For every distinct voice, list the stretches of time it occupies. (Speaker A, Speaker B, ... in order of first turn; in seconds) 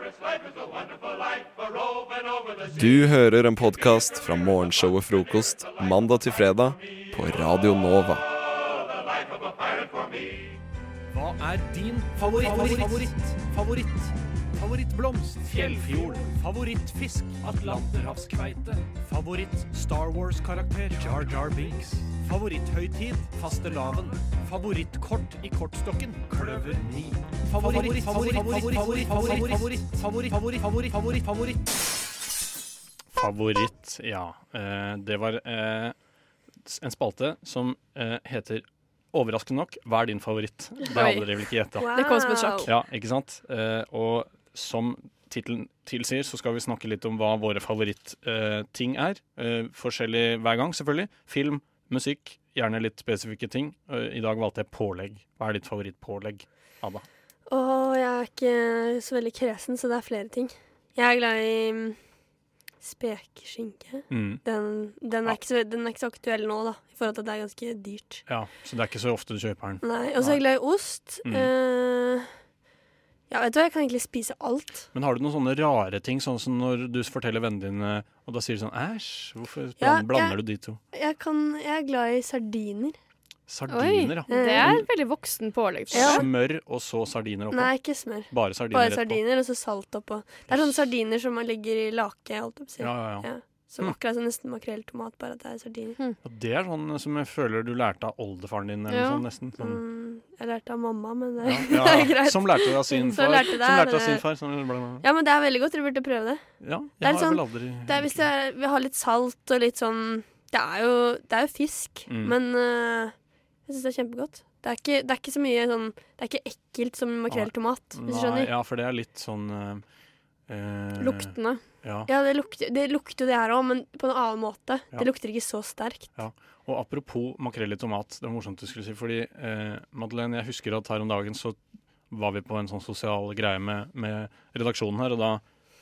Speaker A: 2.7-8.2
Speaker B: 11.1-31.6, 33.1-35.9, 36.6-41.9, 42.6-57.0, 64.1-64.4, 68.3-70.4, 71.2-71.5, 74.9-80.8, 83.5-84.8, 85.9-87.7, 88.3-89.2, 90.5-90.8, 92.8-94.0, 96.2-99.8, 101.4-105.0, 106.6-108.3, 112.1-112.3, 117.3-119.8, 120.5-122.1, 126.2-131.6, 132.1-135.4
Speaker C: 40.9-41.2, 41.9-42.7, 83.7-86.2, 98.9-99.2, 121.0-121.6
Speaker D: 41.8-42.7, 57.5-62.0, 62.8-68.2, 69.8-72.3, 73.3-74.8, 79.8-80.3, 80.9-83.0, 84.3-84.8, 85.9-86.2, 87.5-96.0, 99.6-104.2, 105.0-106.4, 107.0-113.1, 113.7-118.5, 122.1-126.1